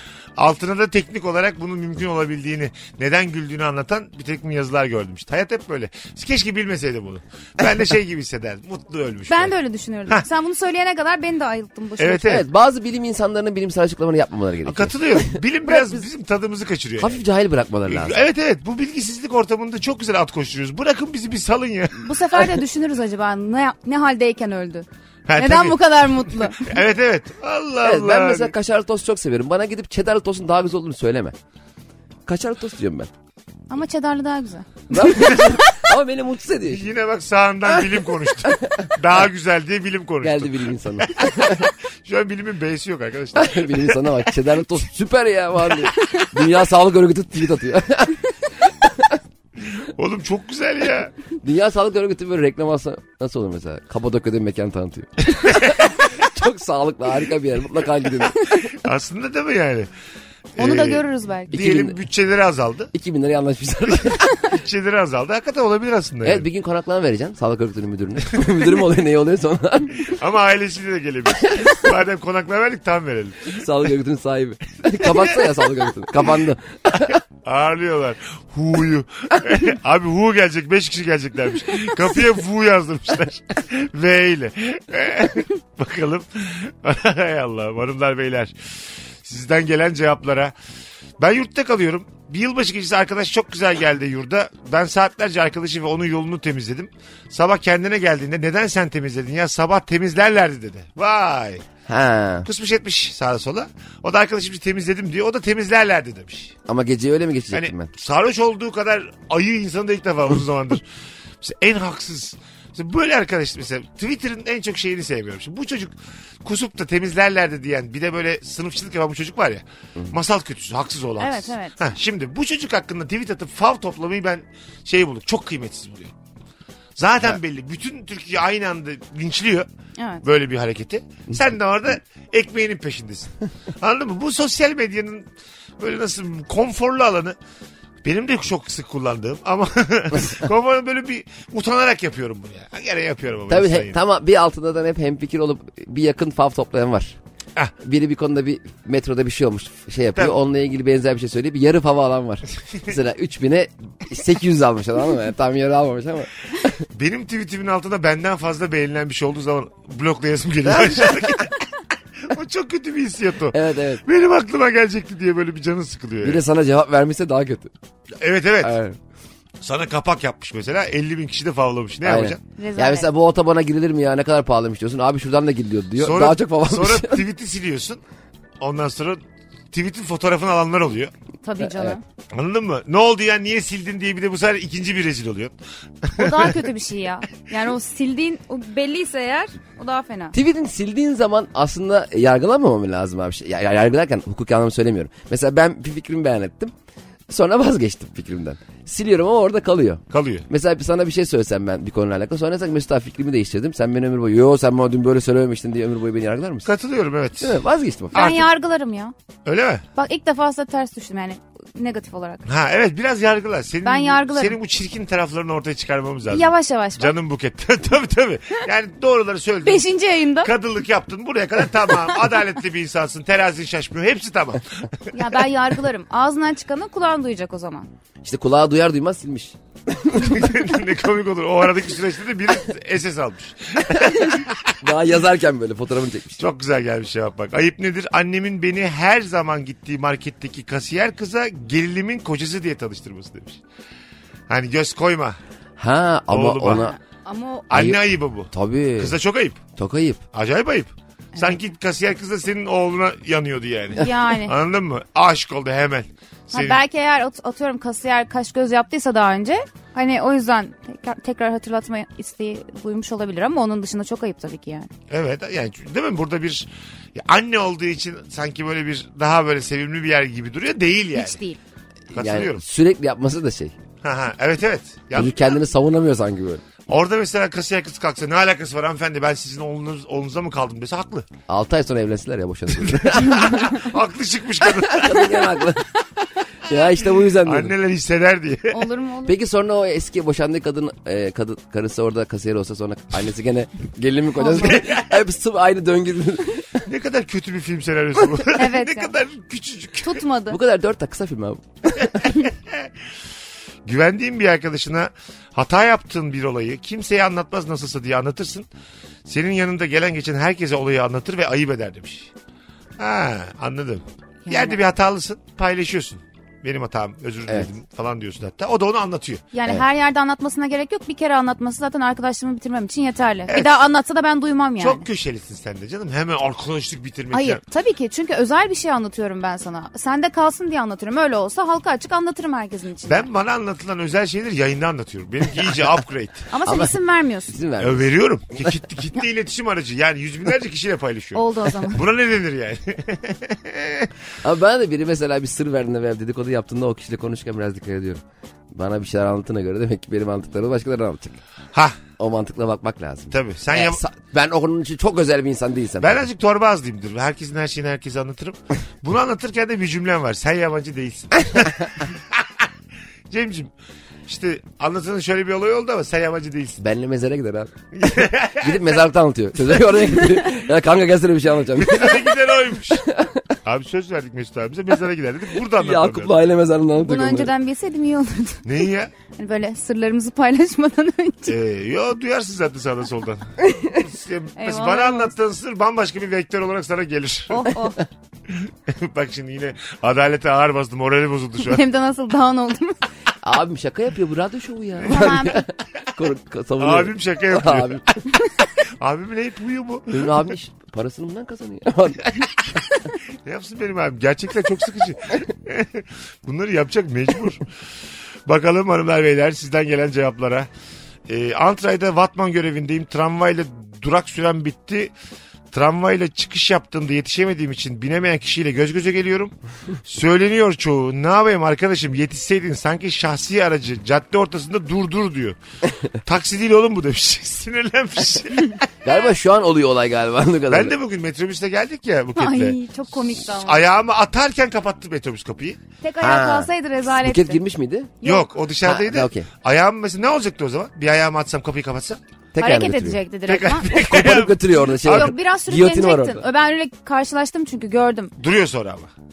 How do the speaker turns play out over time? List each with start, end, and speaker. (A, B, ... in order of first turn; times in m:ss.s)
0:00.4-0:09.5 A
0:09.3-0:12.3 B
0:12.0-0:12.4 A
0:12.2-0:15.3 C
0:14.6-0:17.2 A
0:15.7-0:16.0 B
0:17.0-0:18.2 C
0:17.9-0:22.4 A
0:22.0-0:26.8 B
0:25.3-0:28.5 A
0:27.8-0:31.4 C
0:32.3-0:33.1 C
0:33.7-0:35.6 B
0:34.9-0:36.8 C
0:36.7-0:44.0 A
0:40.2-0:41.7 C
0:43.3-0:49.2 C
0:49.8-0:51.1 A
0:51.4-0:58.7 C
0:55.5-0:55.7 A
0:58.6-0:59.9 A
1:00.6-1:02.9 A
1:00.6-1:01.6 B
1:01.5-1:02.0 C
1:02.9-1:04.4 C
1:04.4-1:06.5 A
1:06.2-1:10.2 C
1:10.0-1:13.6 A
1:13.5-1:17.2 C
1:17.4-1:28.5 A
1:29.2-1:30.5 A
1:31.2-1:41.7 A
1:41.9-1:42.5 C
1:42.4-1:46.6 A
1:46.7-1:47.9 C
1:47.5-1:50.8 A
1:51.4-1:55.9 A
1:56.4-2:06.1 A
2:01.2-2:01.8 B
2:07.0-2:09.7 A
2:10.0-2:10.2 B
2:10.2-2:15.3 A
2:15.8-2:17.4 A
2:18.0-2:24.0 A
2:23.5-2:27.2 C
2:27.8-2:36.7 C
2:36.9-2:41.6 A
2:42.2-2:46.4 A
2:43.5-2:44.0 C
2:46.2-2:47.7 C
2:48.2-2:48.8 A
2:48.6-2:49.0 C
2:49.6-2:52.4 A
2:52.0-2:57.2 C
2:52.6-2:53.1 B
2:56.0-2:58.0 A
2:58.6-3:01.1 A
3:01.4-3:02.0 B
3:01.6-3:02.0 C
3:02.3-3:06.6 A
3:06.2-3:10.4 B
3:10.3-3:16.7 C
3:17.3-3:26.7 C
3:20.1-3:20.5 A
3:26.6-3:27.6 A
3:27.4-3:28.4 C
3:28.1-3:29.1 B
3:28.1-3:28.5 A
3:29.4-3:29.8 A
3:30.0-3:32.4 B
3:32.5-3:39.9 A
3:33.8-3:34.6 B
3:36.3-3:37.1 B
3:39.6-3:40.5 B
3:40.4-3:45.1 A
3:45.1-3:47.9 B
3:48.2-3:50.3 C
3:50.1-3:54.8 A
3:54.8-3:56.4 C
3:56.4-4:03.6 A
4:04.5-4:05.4 A
4:05.8-4:07.0 C
4:06.3-4:06.9 A
4:06.7-4:07.7 B
4:07.7-4:09.6 A
4:07.7-4:08.0 C
4:08.5-4:09.2 C
4:09.8-4:10.2 C
4:10.3-4:16.8 A
4:14.0-4:14.5 B
4:16.5-4:24.9 B
4:25.1-4:31.4 A
4:31.2-4:31.6 B
4:32.1-4:33.8 C
4:32.1-4:32.6 A
4:34.0-4:35.5 A
4:35.1-4:36.6 C
4:36.9-4:41.3 A
4:41.5-4:43.7 C
4:42.8-4:45.4 A
4:44.8-4:45.9 C
4:46.7-4:47.8 C
4:47.4-4:48.8 A
4:48.7-4:49.4 B
4:49.2-4:56.8 C
4:54.4-4:54.8 B
4:56.8-5:00.2 A
4:58.5-4:59.2 B
5:00.0-5:00.6 B
5:00.5-5:02.1 C
5:02.1-5:02.9 A
5:03.8-5:08.7 A
5:09.3-5:12.3 A
5:13.0-5:19.4 A
5:14.5-5:14.8 B
5:19.5-5:25.0 B
5:23.5-5:23.8 A
5:24.8-5:27.6 A
5:27.3-5:33.3 B
5:33.1-5:36.5 A
5:36.5-5:37.5 B
5:36.6-5:37.0 C
5:37.5-5:38.1 C
5:37.8-5:44.1 A
5:41.3-5:42.0 B
5:44.4-5:51.4 C
5:51.7-5:52.0 A
5:52.2-5:56.2 C
5:53.3-5:54.0 A
5:56.0-6:02.5 A
6:03.3-6:03.7 A
6:04.3-6:06.8 A
6:06.8-6:12.4 C
6:08.0-6:09.0 A
6:11.8-6:13.0 A
6:13.0-6:13.5 C
6:13.6-6:16.4 A
6:15.7-6:17.5 C
6:17.0-6:18.7 B
6:18.6-6:19.1 A
6:19.4-6:21.5 B
6:21.5-6:27.7 A
6:24.6-6:25.3 B
6:27.5-6:28.0 B
6:28.5-6:31.8 A
6:31.6-6:33.0 B
6:33.4-6:38.0 C
6:35.0-6:35.5 A
6:35.0-6:35.6 B
6:36.8-6:38.1 A
6:39.0-6:40.4 A
6:40.1-6:42.3 C
6:43.4-6:47.6 A
6:48.5-6:50.7 A
6:51.3-6:55.1 A
6:55.7-6:59.5 A
7:00.0-7:05.6 A
7:06.2-7:08.9 A
7:09.0-7:11.0 C
7:10.7-7:12.8 A
7:12.4-7:13.8 B
7:13.4-7:15.8 A
7:16.0-7:17.6 B
7:16.2-7:18.1 C
7:18.2-7:22.2 A
7:18.8-7:19.5 C
7:22.5-7:23.2 C
7:22.6-7:23.9 B
7:23.5-7:25.4 A
7:23.9-7:26.5 C
7:25.1-7:28.3 B
7:28.4-7:29.1 A